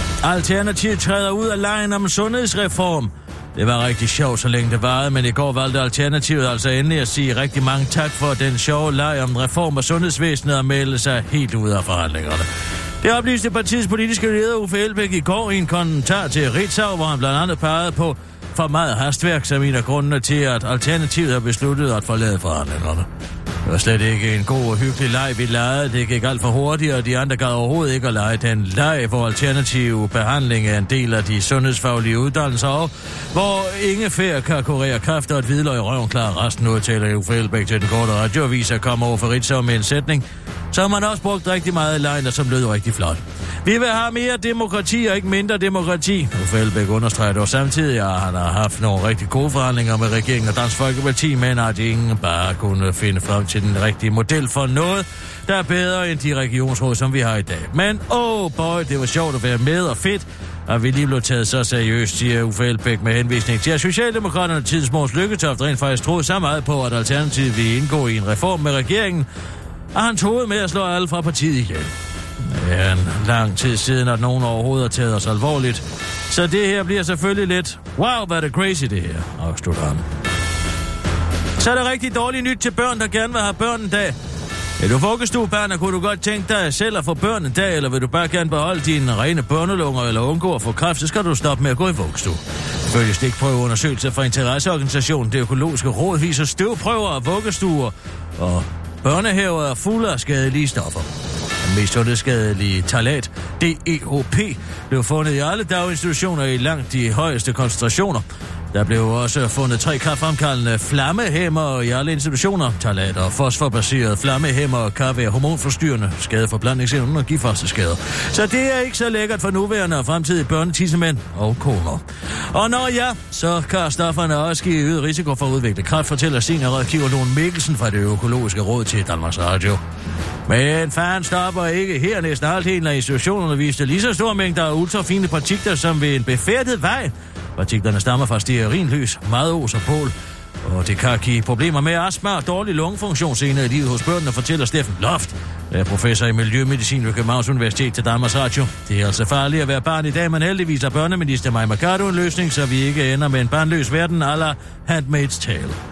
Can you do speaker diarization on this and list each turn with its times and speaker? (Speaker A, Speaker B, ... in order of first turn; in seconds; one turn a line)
Speaker A: 0.2-12.5
Speaker A: 13.0-23.1
Speaker A: 23.7-69.3
Speaker A: 69.9-80.0
Speaker A: 81.6-84.2
Speaker A: 84.8-101.1
Speaker A: 101.6-129.8
Speaker A: 130.5-155.8